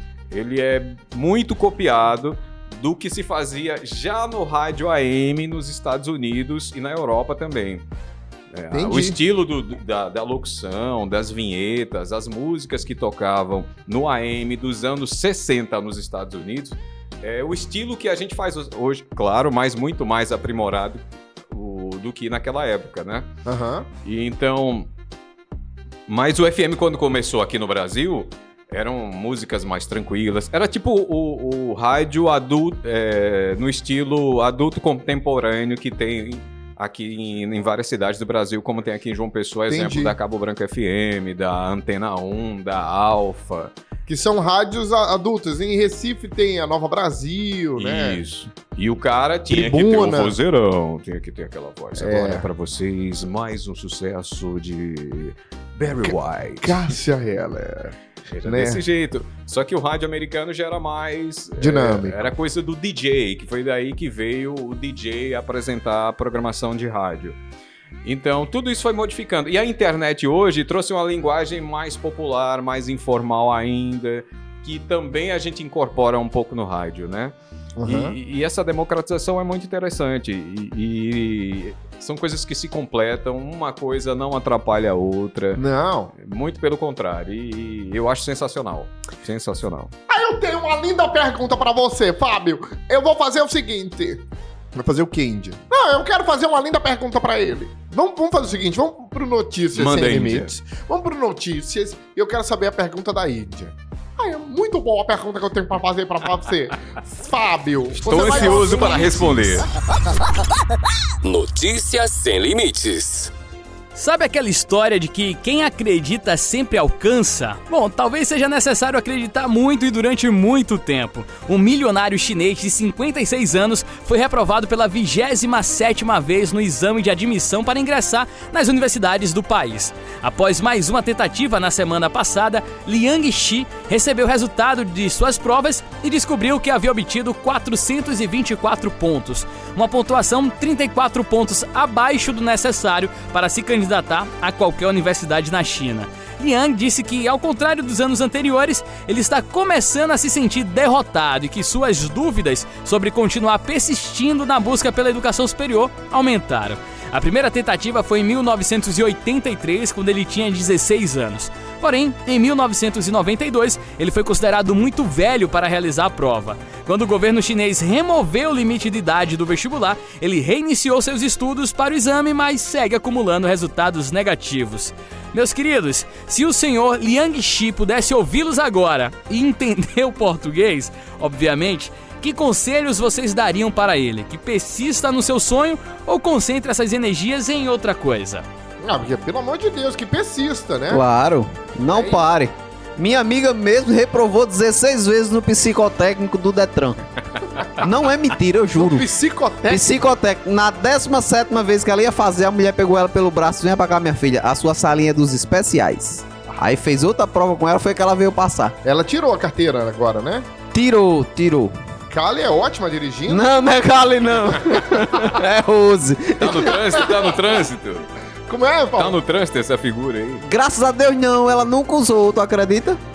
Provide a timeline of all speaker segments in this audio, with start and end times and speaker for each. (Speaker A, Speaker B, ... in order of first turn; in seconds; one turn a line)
Speaker A: 0.3-7.8
Speaker A: 8.5-23.3
Speaker B: 8.7-9.2
Speaker B: 23.5-23.9
Speaker A: 24.0-24.9
Speaker A: 26.1-43.7
Speaker B: 39.7-40.1
Speaker B: 44.1-48.2
Speaker A: 47.8-56.8
Speaker B: 49.5-50.4
Speaker B: 52.0-52.5
Speaker B: 56.0-57.9
Speaker A: 58.3-67.4
Speaker B: 58.5-58.8
Speaker B: 61.6-62.3
Speaker A: 68.0-85.6
Speaker B: 77.8-78.2
Speaker B: 85.6-86.1
Speaker A: 86.1-89.9
Speaker B: 90.1-94.2
Speaker B: 94.7-109.6
Speaker A: 99.8-100.5
Speaker A: 108.0-109.7
Speaker C: 111.2-113.3
Speaker D: 114.0-188.4
Speaker B: 188.8-191.0
Speaker E: 190.9-197.0
Speaker B: 191.9-192.2
Speaker E: 197.8-199.1
Speaker B: 198.8-199.9
Speaker E: 199.7-208.8
Speaker B: 208.8-210.5
Speaker E: 210.7-211.8
Speaker B: 212.1-213.5
Speaker E: 213.3-216.7
Speaker B: 215.0-215.3
Speaker A: 216.4-218.1
Speaker B: 218.5-219.2
Speaker A: 219.0-220.5
Speaker E: 220.5-223.0